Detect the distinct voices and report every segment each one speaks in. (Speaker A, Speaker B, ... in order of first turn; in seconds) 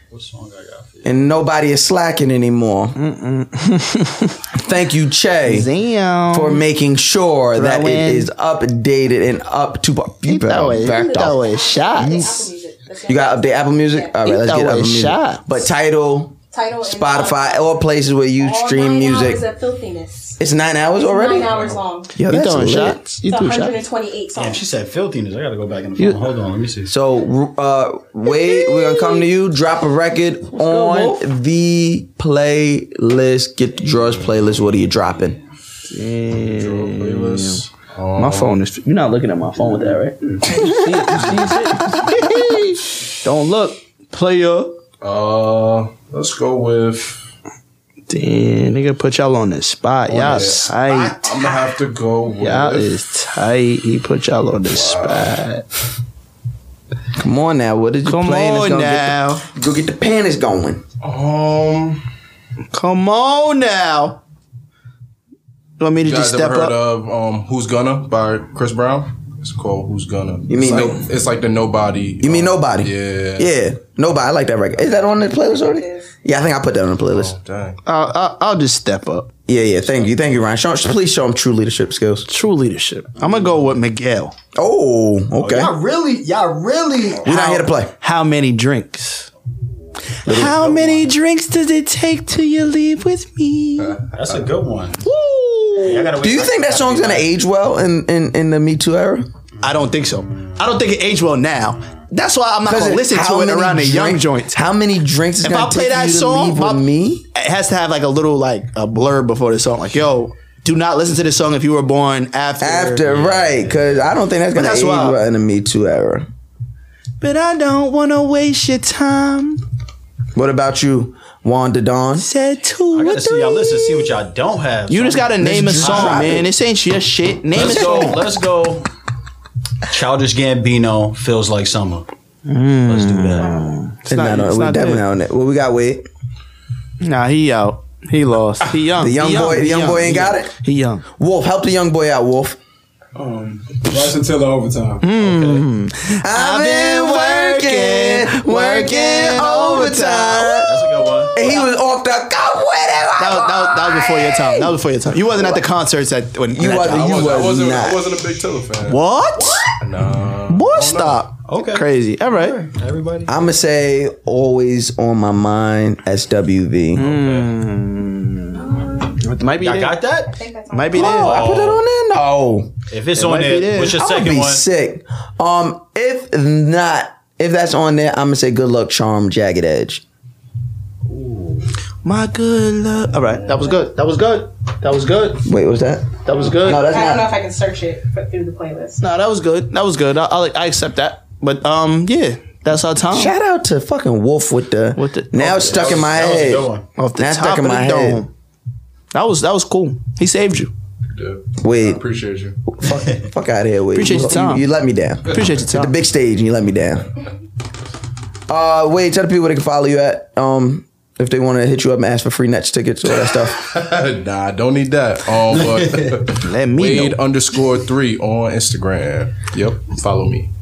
Speaker A: 0.1-1.2, 24.4-26.9, 85.4-87.3, 90.2-91.1, 94.1-95.0, 95.8-97.3, 99.6-100.8, 113.0-114.1, 122.9-126.5, 127.5-128.9, 129.8-132.1, 132.8-133.7, 150.6-151.4, 161.5-163.3, 167.1-167.5, 169.6-170.4, 170.9-171.8, 172.9-174.6, 181.1-181.7, 195.5-196.8, 215.7-216.2
Speaker B: 1.0-3.0, 4.5-5.7, 6.3-12.5, 13.1-19.4, 20.4-21.6, 22.1-23.0, 26.9-35.4, 57.2-60.8, 70.5-71.0, 72.2-77.3, 79.5-82.3, 84.5-85.7, 87.2-87.9, 90.3-90.5, 96.2-99.3, 102.6-107.3, 112.6-116.3, 120.3-122.3, 125.4-126.5, 134.1-136.1, 139.0-140.5, 141.2-142.6, 146.2-155.6, 156.5-158.1, 163.3-167.1, 170.9-172.7, 173.9-180.0, 185.4-187.3, 193.1-198.2, 201.6-202.0, 202.6-207.1, 208.5-213.6
Speaker C: 3.0-4.4, 5.5-6.6, 7.5-8.3, 10.2-12.4, 14.2-15.5, 22.3-23.8, 30.5-31.2, 35.9-37.6, 38.2-44.7, 48.1-51.5, 52.4-55.6, 58.0-59.4, 62.7-64.2, 65.8-66.8, 77.8-79.3, 82.3-84.3, 87.2-89.3, 90.2-94.0, 95.0-96.1, 99.6-104.6, 105.4-106.8, 107.3-113.1, 114.5-115.2, 117.2-119.6, 122.2-124.1, 124.9-128.3, 132.4-135.0, 137.0-141.1, 145.0-151.7, 153.2-157.2, 158.9-159.7, 160.5-162.6, 166.9-170.0, 170.7-171.4, 173.1-174.2, 182.0-185.4, 186.2-186.9, 189.0-193.3, 194.9-196.0, 196.9-198.3, 199.1-200.7, 203.9-204.7, 205.3-205.9, 216.4-217.2
Speaker D: 10.8-14.2, 16.5-17.7, 18.4-20.4, 20.9-22.1, 23.2-24.6, 28.4-29.2, 170.3-171.0, 186.6-189.0
Speaker E: 36.3-38.5, 45.0-47.2, 50.1-52.9, 54.7-55.3, 61.0-62.0, 66.0-73.5, 77.0-77.8, 156.9-159.0, 159.8-161.2, 201.1-202.6, 213.5-220.5
Speaker F: 143.1-145.1